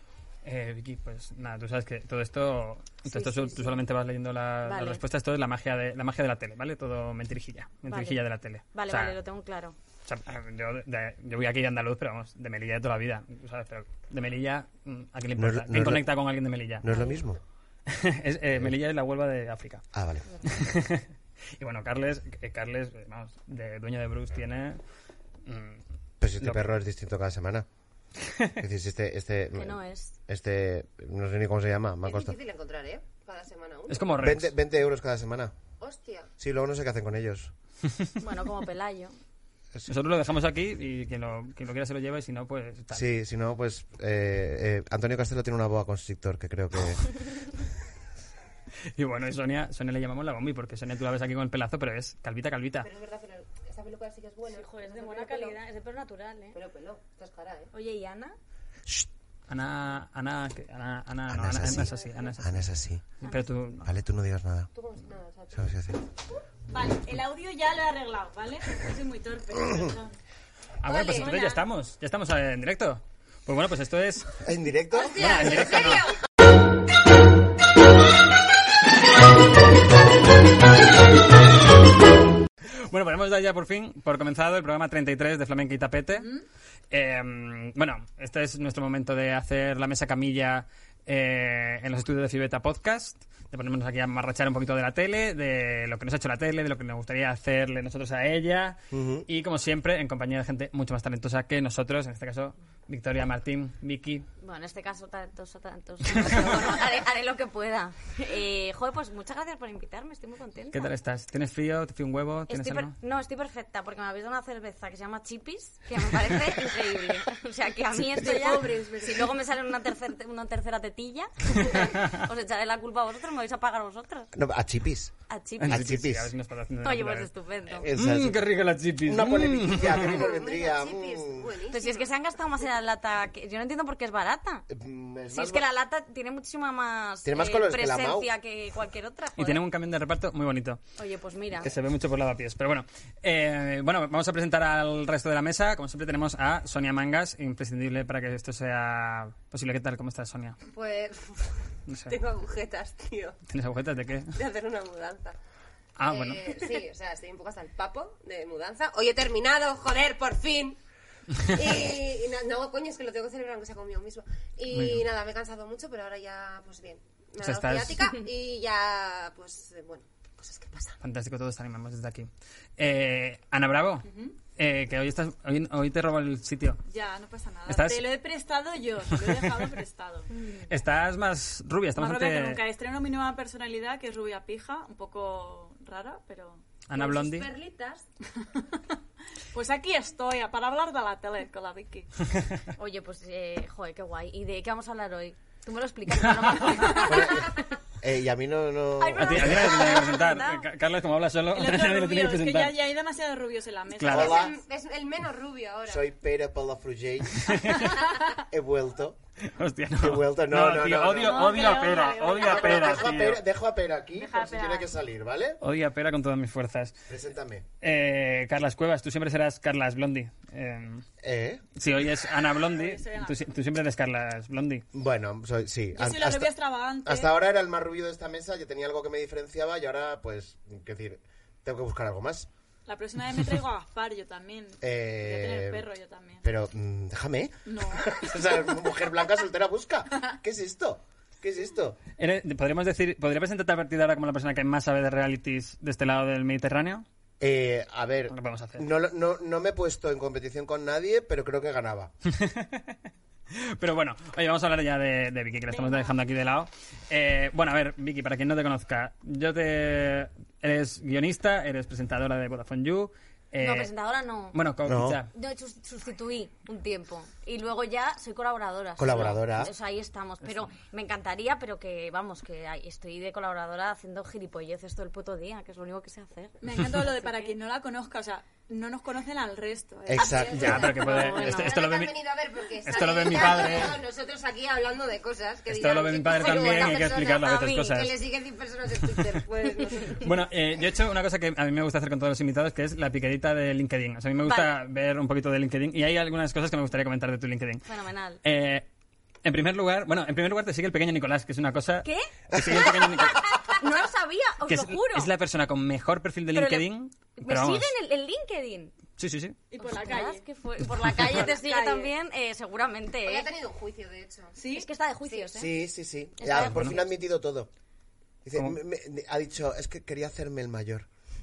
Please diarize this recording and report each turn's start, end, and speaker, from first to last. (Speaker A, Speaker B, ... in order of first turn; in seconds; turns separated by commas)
Speaker A: 0.4-9.2, Speaker B: 3.0-3.8, Speaker B: 4.6-5.0, Speaker B: 7.9-8.2, Speaker B: 8.7-9.7, Speaker A: 10.0-16.8, Speaker C: 15.3-16.1, Speaker C: 16.8-17.4, Speaker B: 16.9-17.2, Speaker A: 17.9-19.8, Speaker C: 19.9-20.5, Speaker A: 20.4-21.1, Speaker A: 21.6-24.8, Speaker A: 25.4-25.8, Speaker C: 26.2-27.6, Speaker A: 26.4-26.7, Speaker C: 28.6-32.4, Speaker B: 29.5-30.1, Speaker D: 32.0-34.0, Speaker A: 33.9-34.5, Speaker C: 34.2-35.5, Speaker D: 35.8-36.3, Speaker C: 36.4-37.5, Speaker B: 38.2-39.1, Speaker A: 39.9-43.1, Speaker C: 42.9-47.5, Speaker A: 49.0-52.9, Speaker D: 52.8-55.6, Speaker B: 54.5-56.5, Speaker D: 56.5-57.7, Speaker B: 57.7-58.4, Speaker A: 59.5-62.6, Speaker C: 61.3-63.0, Speaker D: 61.9-62.3, Speaker A: 63.2-63.9, Speaker C: 63.8-64.7, Speaker D: 64.7-65.6, Speaker C: 65.5-66.0, Speaker E: 66.7-70.2, Speaker A: 70.8-74.3, Speaker D: 70.8-71.6, Speaker C: 74.4-75.5, Speaker D: 74.9-76.2, Speaker A: 75.2-76.1, Speaker A: 82.9-86.3, Speaker E: 86.2-86.5, Speaker A: 86.9-104.2, Speaker C: 98.9-99.2, Speaker B: 104.4-110.9, Speaker A: 106.1-106.6, Speaker A: 110.7-112.9, Speaker B: 112.5-124.3, Speaker E: 118.0-119.3, Speaker A: 121.7-122.0, Speaker C: 124.3-125.1, Speaker B: 125.3-125.8, Speaker A: 125.6-127.3, Speaker C: 125.7-126.3, Speaker B: 126.8-127.9, Speaker C: 127.7-128.4, Speaker A: 127.9-130.3, Speaker C: 129.0-131.6, Speaker D: 130.0-132.1, Speaker B: 131.7-134.7, Speaker C: 134.7-135.6, Speaker B: 135.3-139.6, Speaker C: 137.2-138.3, Speaker A: 139.4-140.8, Speaker B: 141.0-141.7, Speaker A: 141.6-150.6, Speaker D: 150.7-151.5, Speaker A: 151.9-152.2, Speaker D: 152.1-153.4, Speaker A: 153.5-154.3, Speaker D: 154.3-155.4, Speaker A: 156.0-156.8, Speaker D: 156.1-160.8, Speaker D: 161.4-171.0, Speaker A: 164.7-165.0, Speaker A: 167.4-168.1, Speaker A: 171.0-176.8, Speaker E: 174.0-174.4, Speaker E: 176.9-180.3, Speaker A: 177.7-178.0, Speaker A: 179.2-179.7, Speaker A: 180.7-182.6, Speaker E: 181.9-186.6, Speaker A: 186.9-187.5, Speaker D: 186.9-188.0, Speaker E: 189.5-192.1, Speaker B: 192.8-197.6, Speaker A: 196.2-197.0, Speaker C: 197.0-200.0, Speaker B: 199.0-200.6, Speaker A: 199.2-202.7, Speaker E: 201.5-204.5, Speaker A: 203.9-204.4, Speaker C: 204.1-204.5, Speaker D: 204.1-206.1, Speaker C: 205.9-207.8, Speaker A: 207.4-208.1, Speaker C: 208.4-209.2, Speaker A: 209.4-213.4, Speaker C: 210.0-211.6, Speaker E: 211.2-213.0, Speaker C: 212.4-215.6, Speaker E: 214.2-214.9, Speaker A: 215.6-216.9, Speaker C: 217.1-217.7, Speaker A: 217.8-221.0, Speaker C: 221.2-221.6, Speaker A: 221.8-224.8, Speaker E: 222.4-223.5, Speaker C: 224.9-226.5, Speaker E: 225.9-227.3, Speaker C: 227.0-232.5, Speaker E: 232.8-236.4, Speaker C: 234.8-235.8, Speaker C: 236.4-242.0, Speaker E: 237.7-238.2, Speaker A: 242.2-247.0, Speaker C: 247.4-252.1, Speaker A: 248.3-248.9, Speaker A: 252.2-253.0, Speaker A: 253.5-263.9, Speaker B: 255.7-256.1, Speaker B: 263.6-264.6, Speaker A: 264.5-265.3, Speaker C: 264.8-265.2, Speaker B: 265.3-277.4, Speaker C: 269.0-269.7, Speaker E: 276.6-281.3, Speaker C: 280.1-280.6, Speaker D: 280.2-290.5, Speaker A: 280.5-282.2, Speaker B: 280.6-281.8, Speaker A: 282.8-284.0, Speaker A: 285.7-288.1, Speaker B: 286.2-288.1, Speaker A: 290.2-297.8, Speaker B: 294.4-294.8, Speaker B: 297.8-298.4, Speaker A: 298.4-298.9, Speaker A: 299.4-303.7, Speaker B: 302.0-302.3, Speaker C: 302.5-303.1, Speaker B: 303.4-305.3, Speaker A: 304.7-307.9, Speaker B: 306.5-308.9, Speaker A: 309.2-309.6, Speaker E: 309.7-310.4, Speaker B: 309.8-313.5, Speaker E: 311.3-312.1, Speaker D: 313.2-314.6, Speaker E: 314.6-314.9, Speaker B: 314.7-315.8, Speaker D: 315.2-315.5, Speaker C: 315.5-317.7, Speaker B: 316.4-317.0, Speaker A: 316.5-316.9, Speaker C: 318.4-321.1